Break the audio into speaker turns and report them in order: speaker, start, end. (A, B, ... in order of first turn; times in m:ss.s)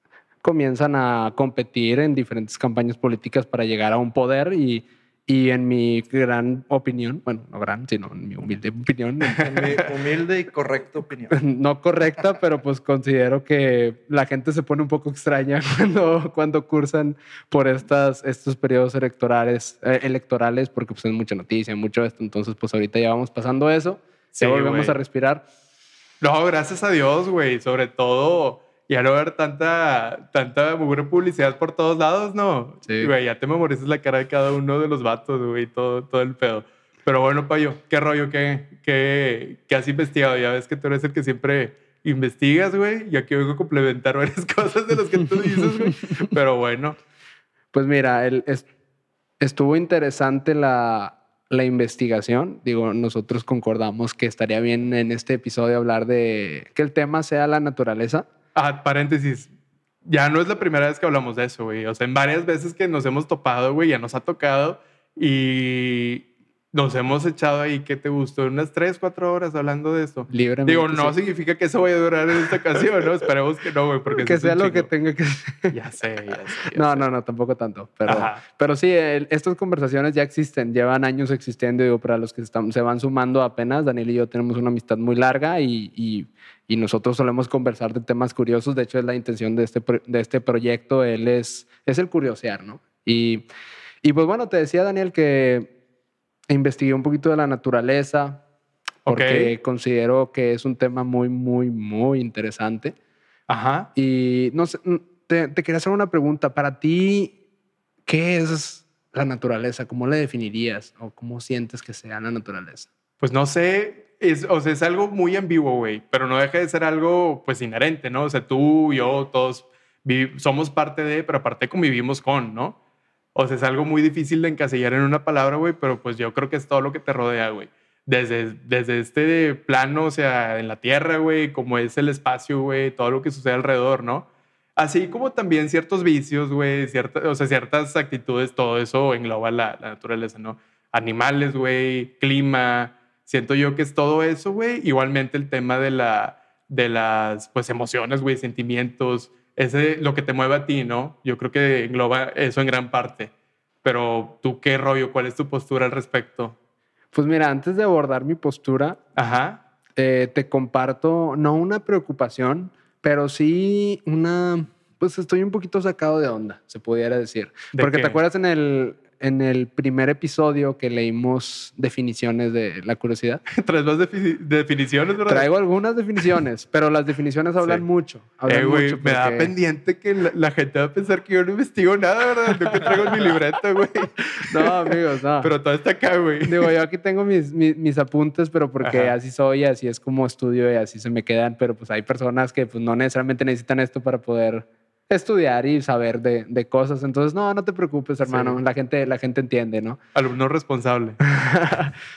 0:00.4-0:09.8 A
0:09.4-0:11.4 B
0:11.3-0:25.4 A
0:24.3-0:25.0 C
0:26.2-0:47.0 C
0:32.9-0:33.1 A
0:45.9-0:46.3 A
0:47.7-0:48.7 A
0:49.4-0:58.3 A
0:58.6-0:59.5 C
1:00.0-1:14.9 C
1:10.3-1:11.2 A
1:14.2-1:15.8 A
1:15.7-1:17.1 C
1:16.7-1:33.4 A
1:18.1-1:18.4 C
1:34.0-1:35.7 A
1:36.5-1:38.4 A
1:39.1-1:39.6 C
1:39.1-1:43.0 A
1:43.5-1:43.9 C
1:44.0-1:47.4 A
1:48.1-1:52.9 A
1:53.2-2:02.8 C
2:03.4-2:33.3 C
2:33.8-2:36.6 C
2:37.1-2:39.0 A
2:39.2-2:39.6 C
2:40.0-2:53.4 A
2:47.7-2:48.2 C
2:53.5-2:55.5 C
2:55.3-2:59.5 A
2:58.5-3:06.7 C
3:04.5-3:05.5 A
3:06.4-3:20.0 A
3:08.8-3:09.2 C
3:18.2-3:18.6 C
3:20.2-3:21.2 C
3:21.3-3:21.9 A